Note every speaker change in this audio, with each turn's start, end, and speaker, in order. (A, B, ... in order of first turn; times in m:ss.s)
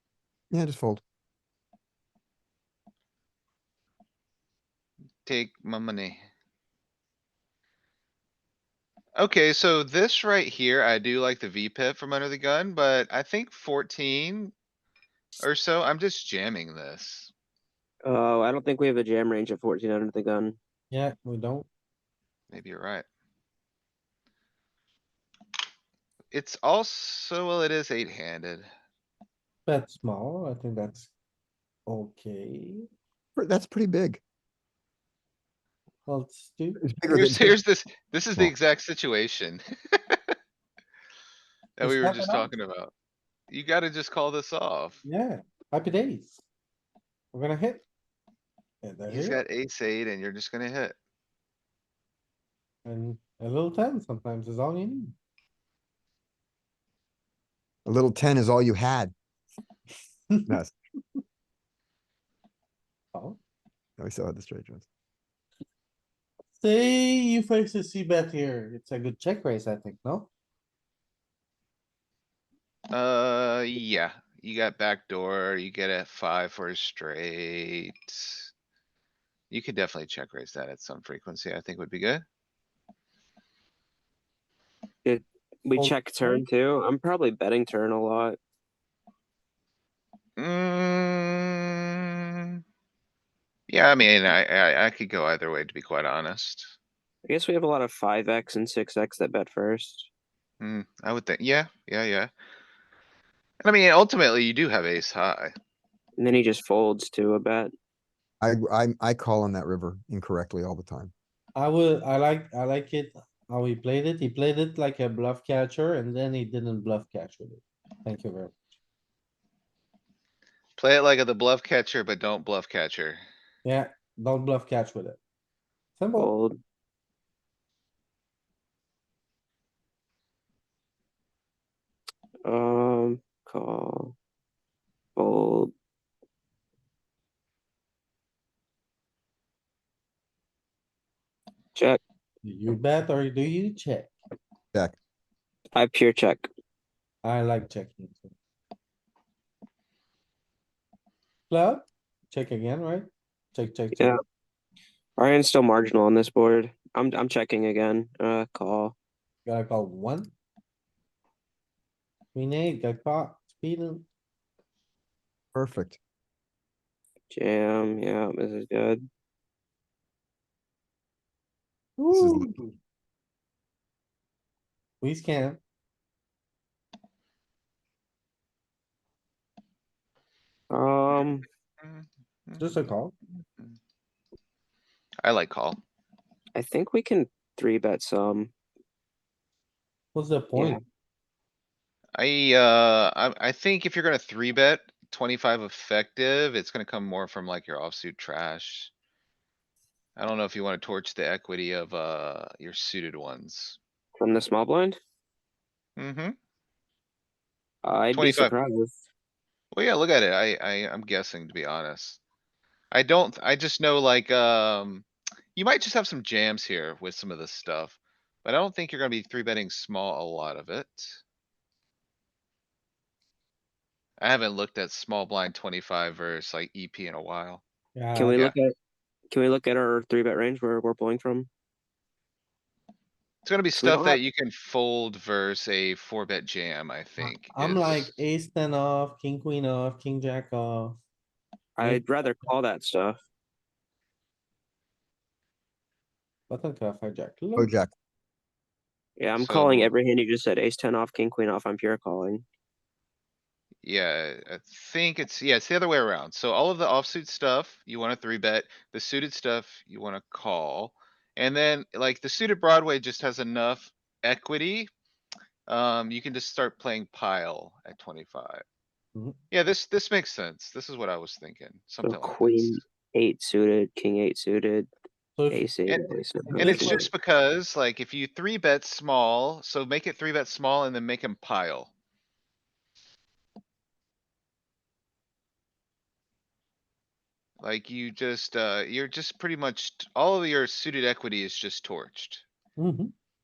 0:00.5-0:01.0 A
0:05.2-0:06.2 B
0:09.2-0:14.5 B
0:15.4-0:17.3 B
0:18.1-0:20.6 C
0:20.9-0:21.7 D
0:22.5-0:23.1 B
0:26.3-0:28.7 B
0:29.7-0:31.1 D
0:31.9-0:32.8 D
0:33.4-0:34.2 A
0:36.1-0:36.8 D
0:36.8-0:37.6 A
0:37.1-0:40.2 B
0:41.8-0:42.9 B
0:41.8-0:42.5 D
0:43.5-0:45.0 B
0:45.0-0:46.4 D
0:47.3-0:47.8 D
0:48.8-0:49.4 D
0:49.1-0:51.0 B
0:52.8-0:55.2 D
0:57.8-0:59.1 A
1:00.5-1:00.7 A
1:04.0-1:04.8 A
1:06.6-1:10.3 D
1:12.9-1:18.5 B
1:19.5-1:22.2 B
1:25.0-1:28.4 C
1:25.8-1:26.4 D
1:30.4-1:32.6 B
1:33.7-1:36.8 B
1:37.3-1:40.1 C
1:40.6-1:42.3 B
1:43.6-1:45.5 B
1:46.2-1:47.7 C
1:48.4-1:51.1 A
1:51.6-1:58.5 D
2:00.8-2:03.2 B
2:03.6-2:05.2 D
2:06.0-2:06.3 D
2:06.2-2:06.6 C
2:12.4-2:14.2 C
2:15.2-2:15.7 C
2:21.8-2:22.0 C
2:22.4-2:24.1 D
2:25.7-2:26.5 C
2:27.2-2:28.3 D
2:31.5-2:34.2 D
2:35.2-2:39.0 C
2:39.5-2:40.3 D
2:42.3-2:44.1 D
2:45.5-2:46.0 A
2:47.3-2:49.0 C
2:52.0-2:52.7 D
2:52.1-2:52.5 A
2:55.0-2:55.6 D
3:00.7-3:01.4 C
3:01.1-3:02.9 B
3:02.6-3:03.1 D
3:05.2-3:05.8 B
3:06.6-3:08.5 C
3:10.2-3:10.8 D
3:10.6-3:10.8 C
3:12.2-3:18.9 B
3:20.2-3:23.8 B
3:24.2-3:25.0 C
3:26.0-3:26.4 B
3:27.8-3:28.9 C
3:28.1-3:28.5 B
3:29.7-3:32.2 B
3:32.9-3:41.2 B
3:44.2-3:47.6 B
3:48.0-3:48.4 D
3:48.2-3:48.7 C
3:49.3-3:51.5 C
3:53.4-3:58.2 B
3:53.8-3:54.2 C
3:57.2-4:01.0 D
4:01.8-4:03.2 C
4:06.5-4:07.7 D
4:07.6-4:07.9 A
4:09.2-4:12.4 C
4:09.4-4:09.9 B
4:13.8-4:24.9 B
4:25.7-4:28.6 B
4:29.5-4:32.8 B
4:32.0-4:34.9 C
4:35.4-4:35.6 D
4:35.5-4:37.0 C
4:35.9-4:41.9 B
4:36.4-4:37.1 D
4:47.6-4:52.4 B
4:52.8-4:53.1 D